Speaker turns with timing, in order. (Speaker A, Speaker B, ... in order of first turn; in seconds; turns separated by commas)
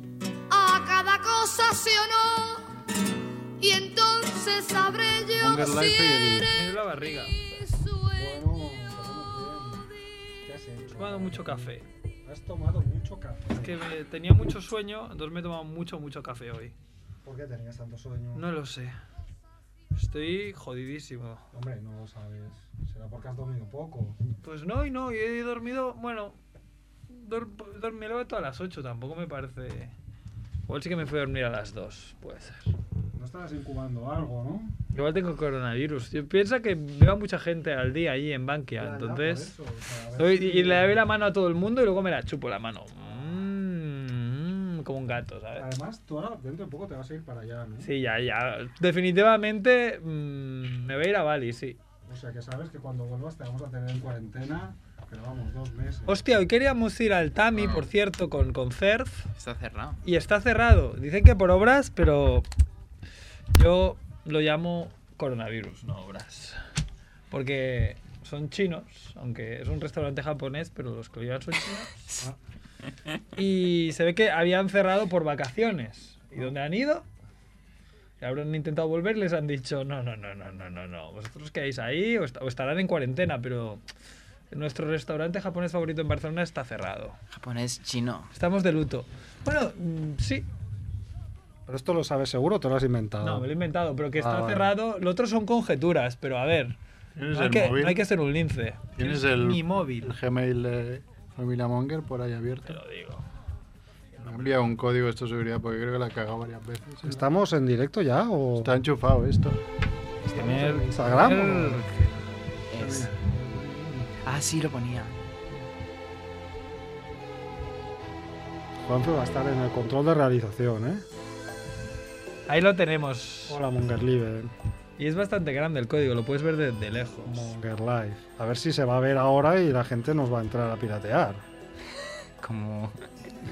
Speaker A: 0.5-2.6, Speaker A: 3.6-8.4, Speaker B: 5.3-6.5, Speaker C: 6.5-7.3, Speaker D: 8.1-9.9, Speaker D: 10.4-11.7, Speaker C: 11.0-11.8, Speaker D: 12.2-13.8, Speaker C: 13.6-16.7, Speaker D: 17.2-18.4, Speaker C: 18.3-18.9, Speaker C: 19.9-21.4, Speaker D: 21.5-24.2, Speaker C: 24.4-26.4, Speaker C: 27.1-29.9, Speaker C: 30.7-32.7, Speaker D: 33.1-34.8, Speaker C: 34.9-39.5, Speaker D: 38.8-40.9, Speaker C: 40.2-45.6, Speaker D: 45.5-47.9, Speaker C: 47.8-51.8, Speaker D: 52.0-56.2, Speaker C: 56.1-59.3, Speaker E: 59.4-60.0, Speaker C: 60.0-62.5, Speaker C: 63.5-66.5, Speaker C: 67.3-71.9, Speaker C: 73.3-77.0, Speaker C: 78.2-83.8, Speaker C: 84.5-87.2, Speaker E: 87.3-88.3, Speaker C: 88.3-90.5, Speaker D: 91.7-93.5, Speaker C: 93.2-96.8, Speaker D: 94.2-94.7, Speaker B: 97.2-98.0, Speaker C: 97.3-100.1, Speaker B: 99.0-102.8, Speaker C: 102.7-103.2, Speaker B: 104.2-107.2, Speaker D: 107.0-108.7, Speaker B: 108.6-109.6, Speaker D: 110.3-111.8, Speaker C: 110.3-112.1, Speaker E: 112.7-113.1, Speaker B: 112.9-113.3, Speaker E: 114.2-115.1, Speaker D: 118.8-121.0, Speaker C: 122.5-123.6, Speaker D: 123.5-124.5, Speaker C: 125.0-127.5, Speaker D: 127.2-131.4, Speaker E: 132.4-132.9